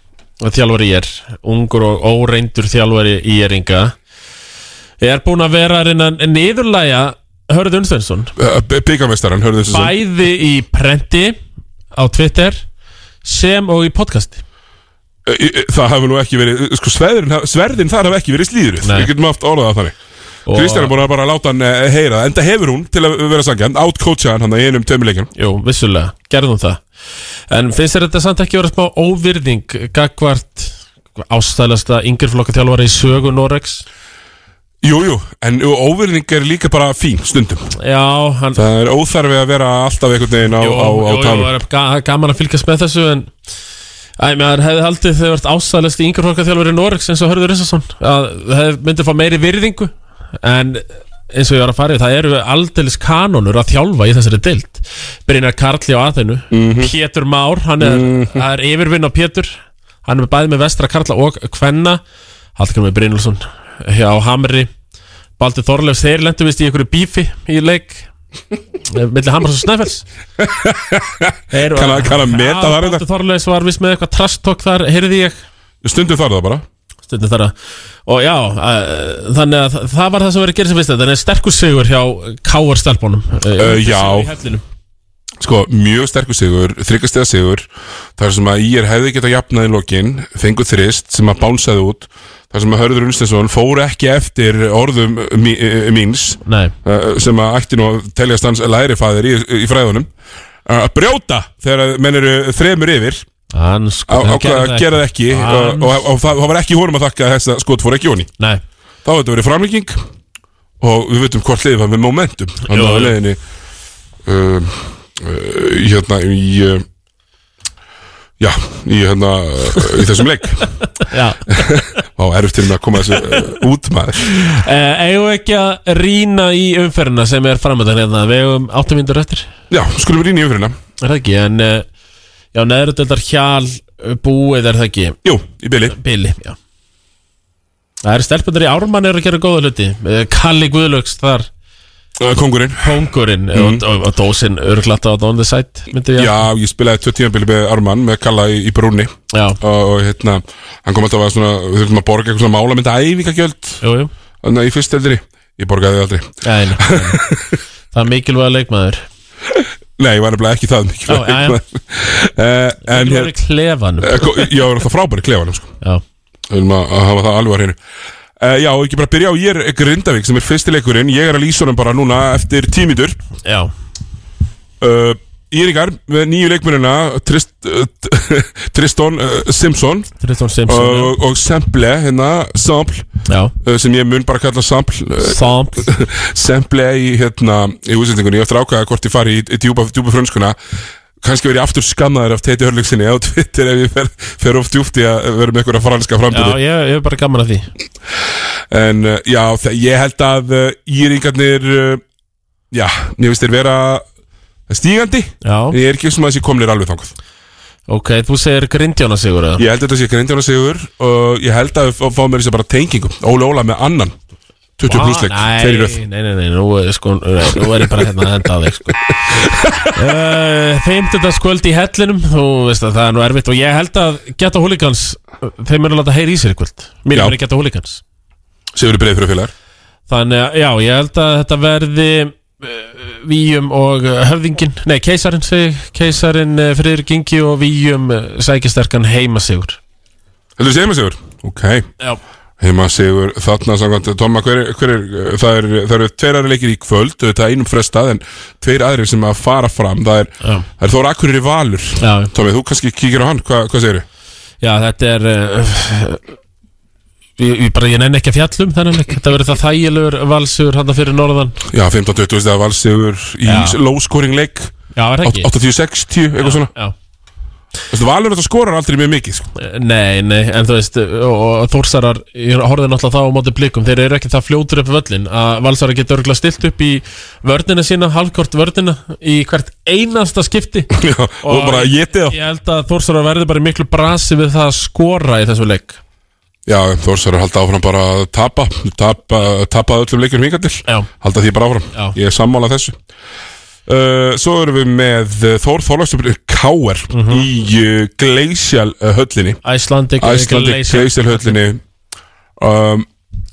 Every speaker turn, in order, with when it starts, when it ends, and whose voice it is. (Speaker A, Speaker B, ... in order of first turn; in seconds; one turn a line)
Speaker A: 0.4-4.0
Speaker A: 5.0-8.3
Speaker B: 8.4-9.9
Speaker A: 9.7-11.4
Speaker A: 11.9-12.6
Speaker A: 13.2-14.4
Speaker B: 15.2-20.0
Speaker A: 18.8-19.1
Speaker A: 20.5-20.9
Speaker B: 20.5-25.3
Speaker A: 25.4-26.8
Speaker A: 27.5-33.8
Speaker B: 34.8-37.7
Speaker A: 37.8-38.6
Speaker B: 38.5-41.5
Speaker A: 40.6-43.3
Speaker A: 44.2-62.0
Speaker B: 56.5-56.9
Speaker B: 57.8-58.4
Speaker A: 62.6-64.7
Speaker A: 65.4-68.1
Speaker A: 68.8-70.1
Speaker B: 70.4-73.0
Speaker A: 71.5-75.3
Speaker B: 75.8-76.6
Speaker A: 77.1-77.5
Speaker A: 78.0-84.6
Speaker B: 83.5-84.3
Speaker B: 85.4-100.1
Speaker A: 96.4-96.7
Speaker B: 100.7-103.2
Speaker A: 103.5-106.0
Speaker B: 104.1-108.3
Speaker B: 109.0-110.0
Speaker B: 110.8-113.4
Speaker A: 112.7-113.1
Speaker B: 114.2-116.8
Speaker B: 118.4-120.7
Speaker A: 121.0-121.7
Speaker B: 121.5-124.4
Speaker A: 123.0-123.4
Speaker A: 124.2-129.5
Speaker B: 129.7-130.8
Speaker A: 131.0-131.9
Speaker A: 132.5-135.2
Speaker B: 135.2-135.9
Speaker A: 135.9-136.6
Speaker A: 138.0-141.5
Speaker B: 142.2-142.9
Speaker A: 142.8-146.3
Speaker B: 143.5-143.8
Speaker B: 146.1-153.8
Speaker A: 149.3-149.6
Speaker A: 153.8-154.1
Speaker B: 154.4-157.5
Speaker A: 156.4-157.2
Speaker A: 157.9-159.0
Speaker B: 159.6-163.3
Speaker A: 161.1-161.6
Speaker A: 162.8-164.5
Speaker B: 164.0-165.7
Speaker B: 166.5-167.8
Speaker B: 168.4-173.2
Speaker A: 173.4-173.7
Speaker B: 174.8-180.1
Speaker A: 180.2-181.1
Speaker B: 180.7-183.1
Speaker A: 183.3-183.5
Speaker B: 183.6-190.6
Speaker A: 185.2-185.9
Speaker B: 191.2-196.6
Speaker A: 196.3-197.7
Speaker B: 198.7-202.0
Speaker B: 202.7-204.0
Speaker B: 204.7-207.1
Speaker A: 205.4-205.8
Speaker A: 207.9-209.6
Speaker B: 209.6-214.1
Speaker B: 214.8-216.0
Speaker A: 214.9-219.4
Speaker B: 219.4-219.8
Speaker A: 219.9-228.0
Speaker B: 228.7-229.5
Speaker A: 230.1-239.8
Speaker B: 240.6-241.9
Speaker B: 242.6-254.0
Speaker A: 252.0-252.3
Speaker A: 254.6-256.2
Speaker A: 257.4-261.6
Speaker B: 261.7-264.7
Speaker A: 263.4-263.8
Speaker A: 264.9-265.5
Speaker B: 265.2-266.7
Speaker A: 266.4-266.9
Speaker B: 267.9-269.5
Speaker A: 269.5-280.9
Speaker B: 280.9-282.4
Speaker A: 281.4-286.0
Speaker B: 286.7-293.0
Speaker B: 293.9-299.6
Speaker A: 297.1-297.4
Speaker A: 299.6-301.6
Speaker B: 300.2-301.8
Speaker B: 302.6-303.1